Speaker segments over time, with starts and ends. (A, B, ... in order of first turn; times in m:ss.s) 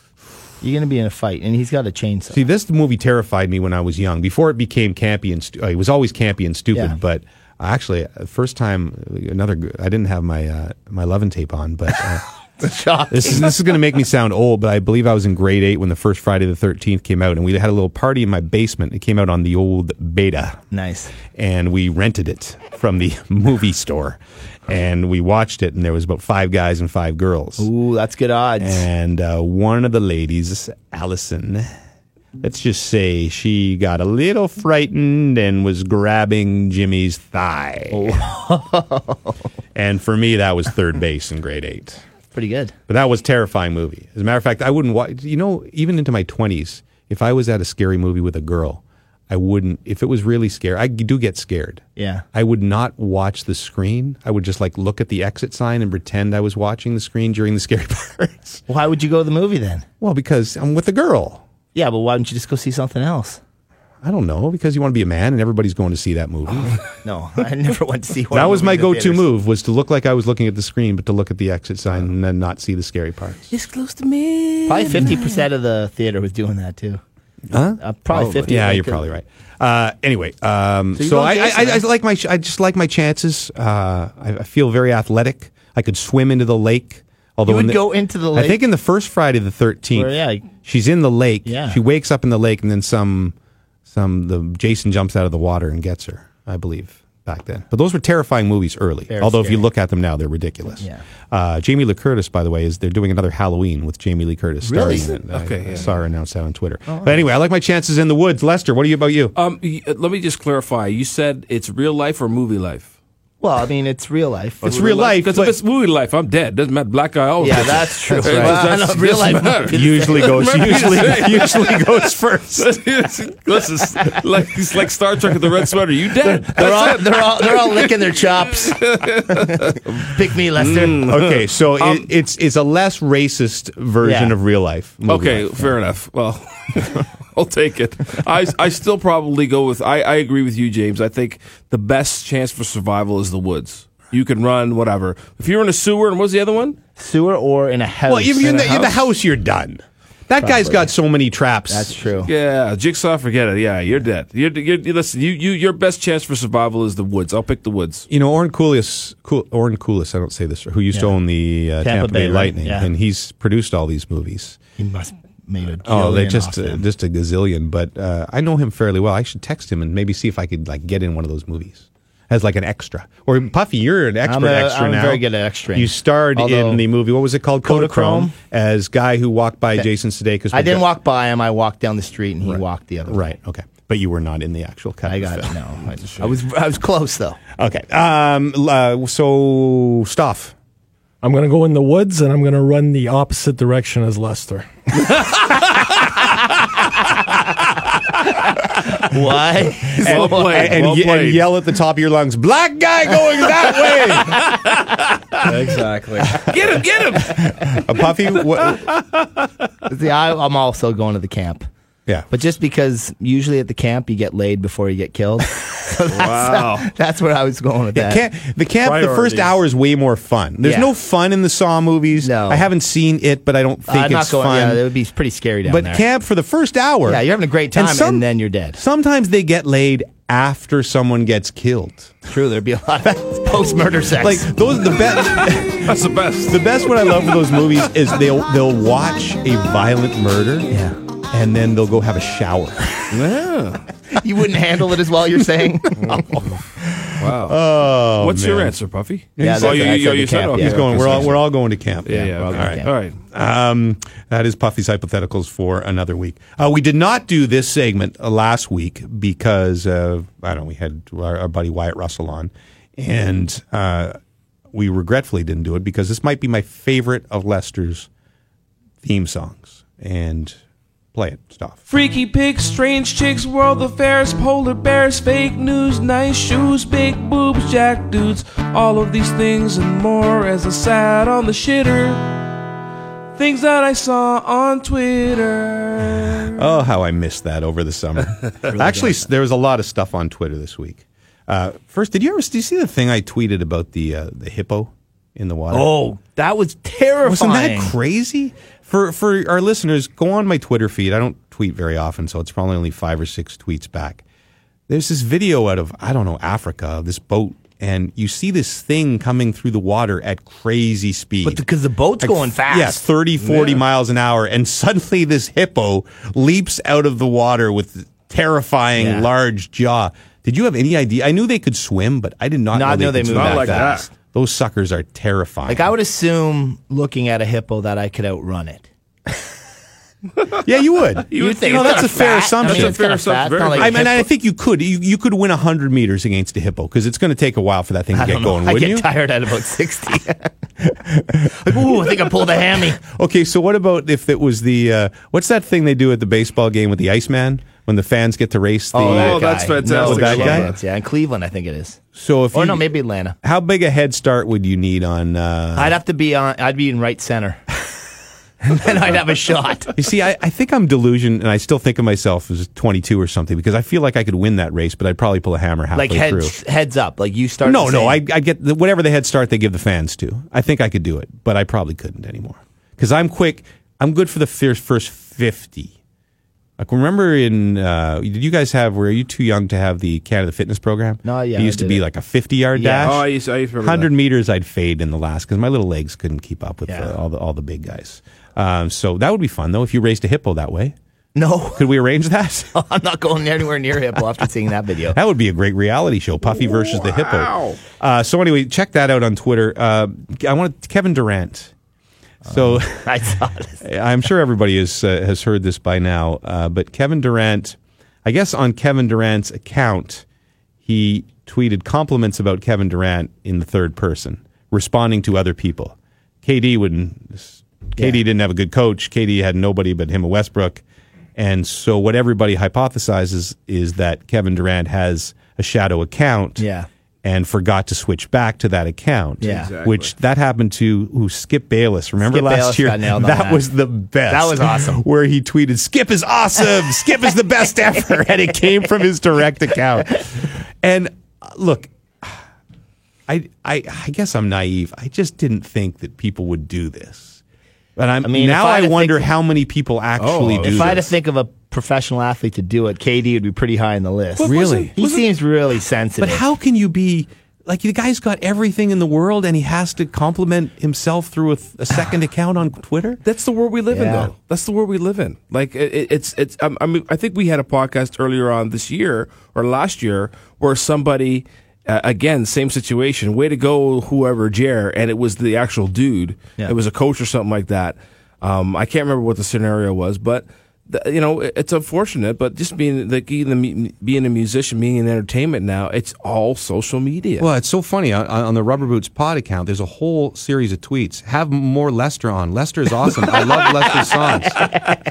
0:00.6-0:02.4 A
0:02.3-0:12.2 B
0:12.6-0:13.6 A
0:13.1-0:20.6 B
0:20.7-0:21.1 A
0:21.3-0:27.7 B
0:27.6-0:28.9 A
0:28.6-0:31.7 B
0:32.4-0:38.3 B
0:37.9-0:39.4 A
0:39.7-0:42.0 B
0:42.3-0:42.7 A
0:42.9-0:58.6 B
0:52.0-0:52.2 A
0:58.7-0:59.9 A
1:00.0-1:01.4 B
1:01.7-1:03.4 A
1:04.0-1:06.8 B
1:07.0-1:09.3 A
1:08.3-1:13.5 B
1:13.7-1:14.6 C
1:14.7-1:17.0 A
1:17.5-1:33.3 B
1:17.8-1:19.0 A
1:18.1-1:18.4 D
1:21.0-1:21.8 A
1:27.4-1:28.6 A
1:29.9-1:30.5 A
1:31.4-1:31.8 A
1:33.9-1:49.3 B
1:39.1-1:39.7 A
1:44.6-1:45.1 A
1:45.3-1:45.9 D
1:49.3-1:52.9 D
1:53.4-1:55.0 A
1:54.6-1:55.6 B
1:54.7-2:01.8 D
1:57.4-2:00.4 A
1:58.2-1:58.7 B
1:59.7-2:02.8 B
2:02.6-2:08.0 D
2:06.4-2:08.8 A
2:08.6-2:12.1 D
2:09.4-2:11.0 A
2:11.0-2:15.8 B
2:14.0-2:14.3 A
2:15.1-2:26.8 D
2:27.0-2:29.0 A
2:28.1-2:32.0 B
2:30.4-2:30.9 A
2:31.7-2:32.3 A
2:32.2-2:38.1 D
2:38.1-2:44.6 B
2:41.8-2:42.9 A
2:44.8-2:46.8 A
2:45.8-3:00.9 B
2:54.2-2:56.8 A
2:57.6-2:58.3 A
3:00.5-3:03.2 A
3:02.4-3:05.6 B
3:05.0-3:07.4 A
3:07.6-3:10.6 B
3:11.2-3:14.7 E
3:18.9-3:20.8 A
3:20.0-3:24.6 B
3:20.0-3:21.5 D
3:25.4-3:26.4 E
3:26.4-3:27.8 D
3:27.3-3:29.0 B
3:29.9-3:31.7 A
3:32.3-3:38.2 A
3:36.1-3:36.9 D
3:37.9-3:44.8 B
3:38.8-3:39.5 E
3:40.6-3:40.9 A
3:42.2-3:42.7 A
3:43.9-3:46.0 A
3:45.6-3:52.2 B
3:47.0-3:48.8 A
3:52.3-3:54.5 A
3:54.2-4:00.7 B
3:55.3-3:57.6 D
4:00.7-4:01.0 A
4:01.3-4:02.9 B
4:03.1-4:03.9 D
4:04.1-4:06.3 A
4:06.1-4:08.8 B
4:07.2-4:07.6 D
4:08.2-4:11.4 D
4:09.4-4:24.2 B
4:09.4-4:11.3 A
4:12.0-4:13.2 D
4:12.4-4:12.9 A
4:24.7-4:28.1 B
4:29.0-4:30.6 B
4:31.1-4:31.8 B
4:31.9-4:42.3 C
4:43.4-4:46.4 C
4:46.5-4:55.9 B
4:48.7-4:49.2 A
4:55.7-4:57.9 A
4:57.2-5:04.2 B
5:04.9-5:11.6 B
5:11.4-5:13.0 A
5:12.2-5:25.9 B
5:13.4-5:13.8 D
5:19.0-5:19.3 A
5:22.7-5:24.1 A
5:23.3-5:24.1 D
5:25.7-5:28.9 A
5:30.6-5:33.0 B
5:31.3-5:34.2 D
5:31.4-5:34.2 A
5:33.7-5:39.1 B
5:38.1-5:40.5 A
5:41.1-5:50.7 B
5:41.5-5:43.0 A
5:48.9-5:52.0 A
5:49.0-5:50.8 D
5:52.1-5:56.0 B
5:52.5-5:53.4 A
5:55.8-5:57.6 A
5:58.6-5:59.9 A
6:00.0-6:06.6 B
6:06.0-6:08.2 A
6:07.6-6:15.9 B
6:16.8-6:31.0 B
6:21.2-6:22.0 A
6:22.7-6:23.2 A
6:23.0-6:24.1 D
6:26.9-6:27.1 A
6:31.3-6:31.9 A
6:31.7-6:32.8 B
6:32.7-6:35.2 A
6:35.1-6:41.7 B
6:36.9-6:37.8 D
6:42.4-6:43.1 B
6:42.4-6:43.8 A
6:43.8-6:50.2 B
6:50.8-7:00.8 B
6:58.0-6:58.2 A
7:01.4-7:06.6 B
7:06.6-7:06.9 A
7:07.2-7:22.4 B
7:09.4-7:09.7 A
7:09.4-7:10.1 D
7:12.2-7:13.7 A
7:14.3-7:15.0 A
7:23.3-7:27.4 B
7:28.0-7:31.1 B
7:28.2-7:29.3 A
7:30.2-7:31.1 D
7:30.6-7:36.4 A
7:34.4-7:35.3 D
7:34.4-7:35.0 B
7:36.2-7:43.2 B
7:43.2-8:07.5 D
7:43.9-7:44.3 A
8:07.4-8:14.8 B